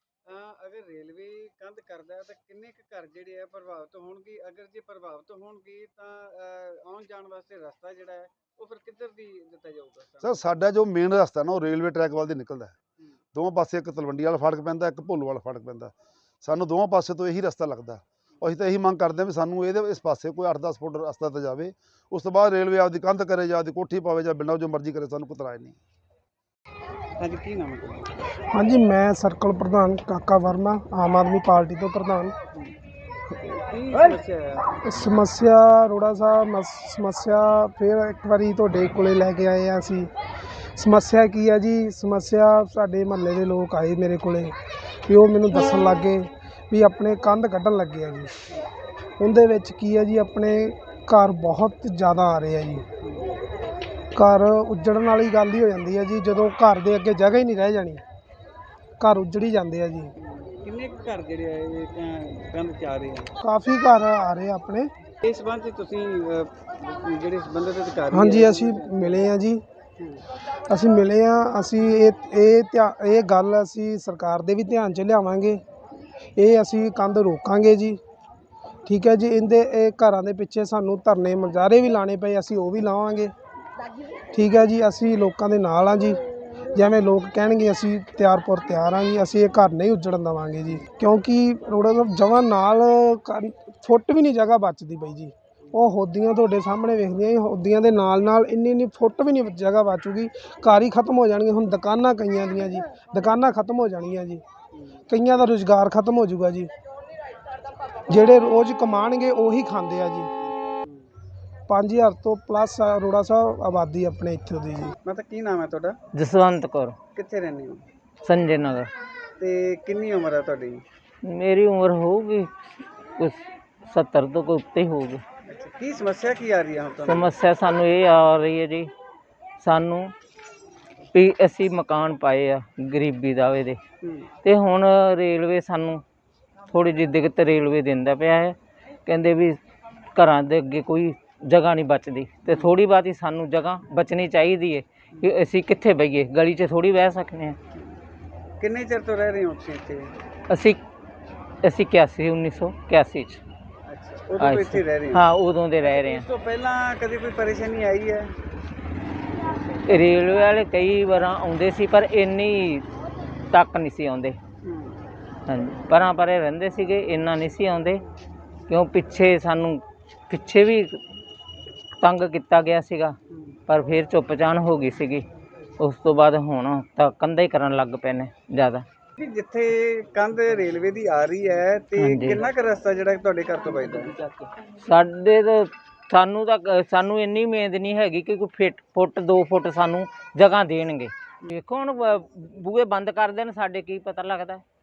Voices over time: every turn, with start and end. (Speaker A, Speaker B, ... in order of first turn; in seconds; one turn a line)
Speaker A: 0.2-10.4
Speaker B: 10.2-12.7
Speaker B: 13.3-25.8
Speaker A: 27.2-28.1
Speaker C: 28.5-32.3
Speaker A: 33.4-34.7
Speaker C: 34.8-40.1
Speaker C: 40.8-44.5
Speaker C: 45.1-48.3
Speaker C: 49.2-52.8
Speaker A: 53.0-53.3
Speaker C: 54.1-58.0
Speaker C: 59.0-60.1
Speaker A: 60.2-63.3
Speaker C: 63.4-64.9
Speaker A: 65.2-69.2
Speaker C: 68.1-69.6
Speaker A: 70.0-70.2
Speaker C: 70.7-75.6
Speaker C: 76.4-78.0
Speaker C: 78.8-83.3
Speaker C: 84.3-86.2
Speaker C: 86.7-104.4
Speaker A: 104.7-105.0
Speaker C: 105.1-106.7
Speaker C: 108.1-110.3
Speaker A: 110.4-111.1
Speaker C: 111.7-114.9
Speaker A: 115.0-116.0
Speaker D: 116.1-117.0
Speaker A: 117.1-117.8
Speaker D: 118.2-118.9
Speaker A: 119.4-120.8
Speaker D: 121.2-122.5
Speaker D: 123.2-125.2
Speaker A: 125.5-127.3
Speaker D: 127.0-128.9
Speaker D: 129.6-130.1
Speaker D: 131.1-133.8
Speaker A: 134.0-134.3
Speaker D: 134.4-136.0
Speaker D: 136.7-139.6
Speaker D: 140.1-147.6
Speaker A: 148.6-150.1
Speaker D: 150.5-150.8
Speaker D: 151.6-153.4
Speaker A: 153.9-155.2
Speaker D: 154.4-156.2
Speaker A: 155.8-158.3
Speaker A: 159.3-160.1
Speaker D: 159.9-162.8
Speaker D: 163.5-164.4
Speaker A: 164.6-165.0
Speaker D: 165.5-168.0
Speaker D: 168.7-171.0
Speaker D: 172.0-173.1
Speaker A: 173.3-173.6
Speaker D: 173.7-175.2
Speaker D: 175.8-178.8
Speaker A: 179.2-184.1
Speaker D: 182.0-182.4
Speaker D: 184.8-194.6